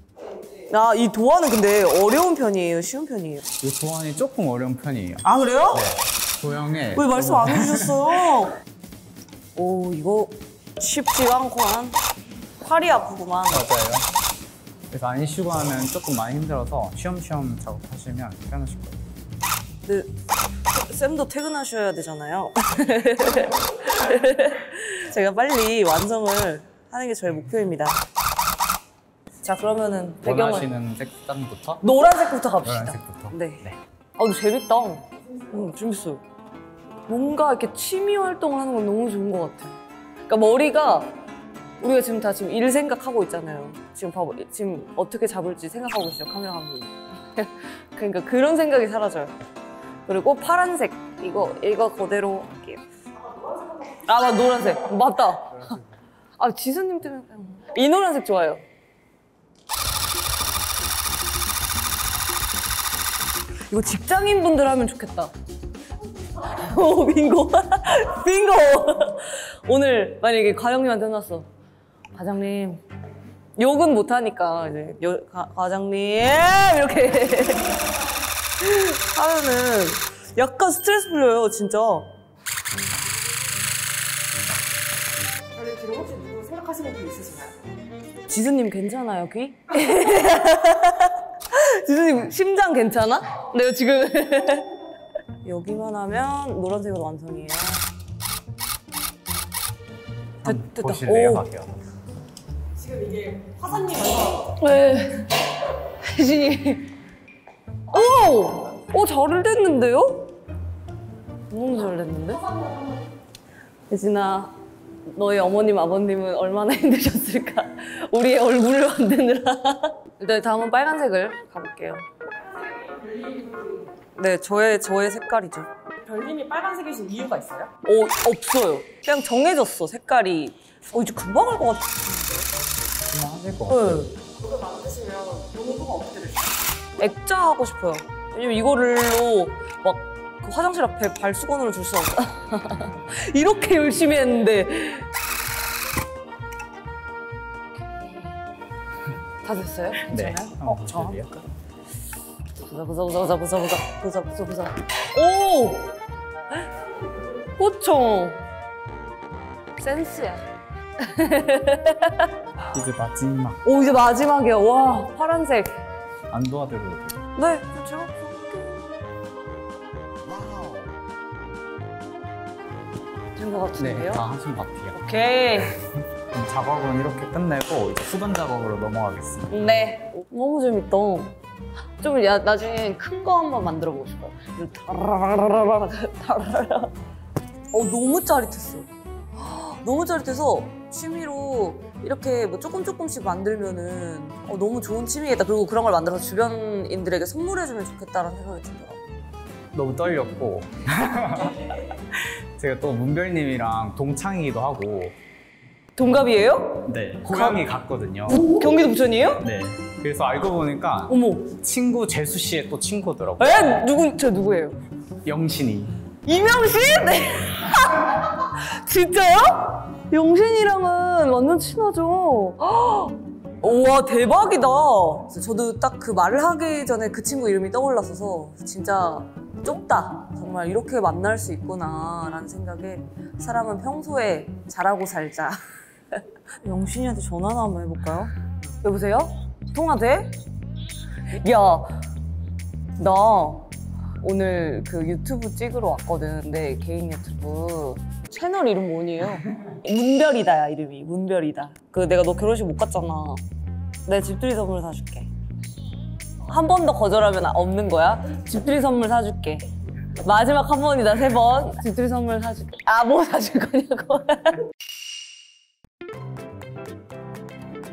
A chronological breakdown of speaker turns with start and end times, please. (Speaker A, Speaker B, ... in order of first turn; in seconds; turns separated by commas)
Speaker A: 0.7-3.5, Speaker B: 3.6-8.3, Speaker A: 5.2-5.9, Speaker A: 6.9-8.6, Speaker A: 9.6-12.0, Speaker A: 12.6-13.7, Speaker B: 13.5-14.1, Speaker B: 14.9-19.0, Speaker A: 19.9-20.1, Speaker A: 20.7-28.0, Speaker A: 29.4-30.7, Speaker B: 30.2-31.8, Speaker A: 31.8-33.7, Speaker B: 32.6-33.8, Speaker A: 34.2-36.2, Speaker A: 37.1-41.1, Speaker A: 41.8-49.3, Speaker A: 50.1-52.8, Speaker A: 53.8-55.8, Speaker A: 56.4-58.6, Speaker A: 63.7-65.3, Speaker A: 66.3-71.5, Speaker A: 72.1-72.8, Speaker A: 73.6-78.0, Speaker A: 78.6-82.1, Speaker C: 85.6-87.5, Speaker A: 88.3-94.7, Speaker A: 95.4-97.9, Speaker B: 100.4-101.8, Speaker A: 100.4-101.5, Speaker C: 103.0-104.2, Speaker A: 104.3-105.5, Speaker A: 106.0-106.9, Speaker A: 107.9-110.3, Speaker A: 111.5-112.5, Speaker A: 113.9-114.5, Speaker A: 115.1-122.0, Speaker A: 124.2-125.7, Speaker C: 126.1-127.7, Speaker A: 127.8-132.4, Speaker B: 133.1-134.1, Speaker A: 133.7-134.2, Speaker C: 134.6-136.4, Speaker A: 137.0-145.1, Speaker A: 147.9-148.3, Speaker A: 149.4-151.4, Speaker B: 150.1-151.4, Speaker A: 152.6-155.9, Speaker A: 157.6-158.4, Speaker A: 159.8-160.4, Speaker A: 161.0-162.3, Speaker B: 162.7-163.6, Speaker A: 163.6-165.8, Speaker B: 166.3-167.2, Speaker A: 167.3-168.9, Speaker A: 173.3-174.2, Speaker B: 173.8-174.9, Speaker A: 174.9-175.8, Speaker B: 176.3-179.6, Speaker A: 179.5-181.3, Speaker A: 182.0-186.9, Speaker A: 187.7-199.0, Speaker B: 199.7-205.1, Speaker A: 206.0-207.6, Speaker B: 206.8-208.5, Speaker A: 208.3-209.4, Speaker B: 209.4-213.7, Speaker A: 211.1-211.5, Speaker A: 213.4-214.8, Speaker B: 215.2-215.9, Speaker A: 216.2-235.6, Speaker A: 236.1-240.4, Speaker A: 241.3-242.0, Speaker A: 243.0-253.4, Speaker A: 254.1-255.3, Speaker A: 256.4-259.7, Speaker A: 260.2-264.7